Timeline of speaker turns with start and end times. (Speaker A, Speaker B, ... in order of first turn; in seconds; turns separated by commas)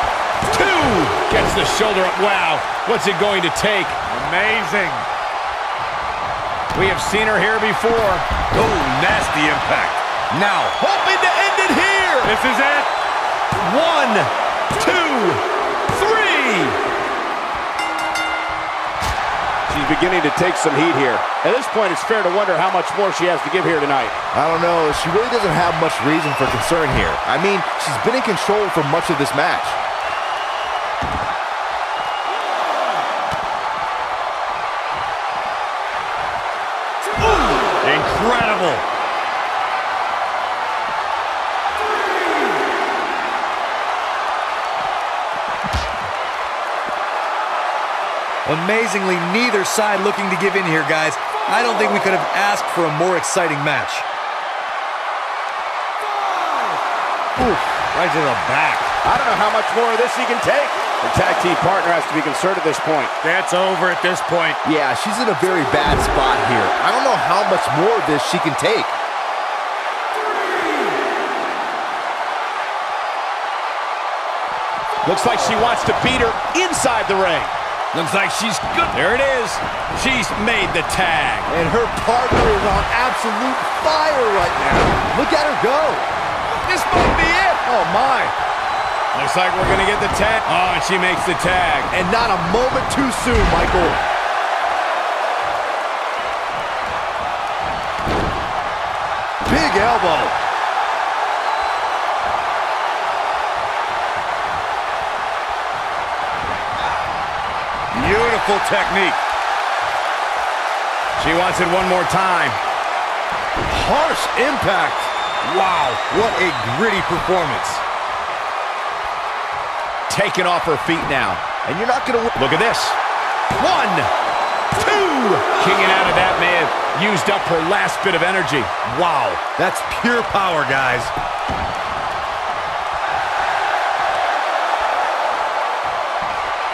Speaker A: 0.5-4.0, Speaker B: 1.4-2.1, Speaker C: 4.1-5.1, Speaker A: 6.8-8.2, Speaker C: 8.5-10.8, Speaker A: 11.0-12.3, Speaker C: 12.2-12.9, Speaker A: 13.6-15.4, Speaker A: 15.9-16.8, Speaker B: 19.7-24.1, Speaker D: 24.3-29.8, Speaker C: 37.5-38.9, Speaker C: 48.5-54.1, Speaker C: 57.7-58.9, Speaker B: 59.0-63.1, Speaker C: 63.2-64.6, Speaker D: 64.6-69.0, Speaker A: 75.1-76.1, Speaker B: 75.1-77.5, Speaker A: 77.9-81.5, Speaker D: 81.5-86.1, Speaker D: 86.7-88.3, Speaker A: 89.1-91.9, Speaker D: 91.9-94.0, Speaker D: 99.5-100.4, Speaker C: 107.9-109.2, Speaker A: 111.2-112.6, Speaker C: 113.7-117.8, Speaker B: 120.1-121.4, Speaker A: 120.3-121.4, Speaker D: 121.6-122.3, Speaker A: 122.4-123.0, Speaker A: 123.6-124.1, Speaker A: 124.8-128.7, Speaker B: 127.8-128.2, Speaker C: 128.8-131.1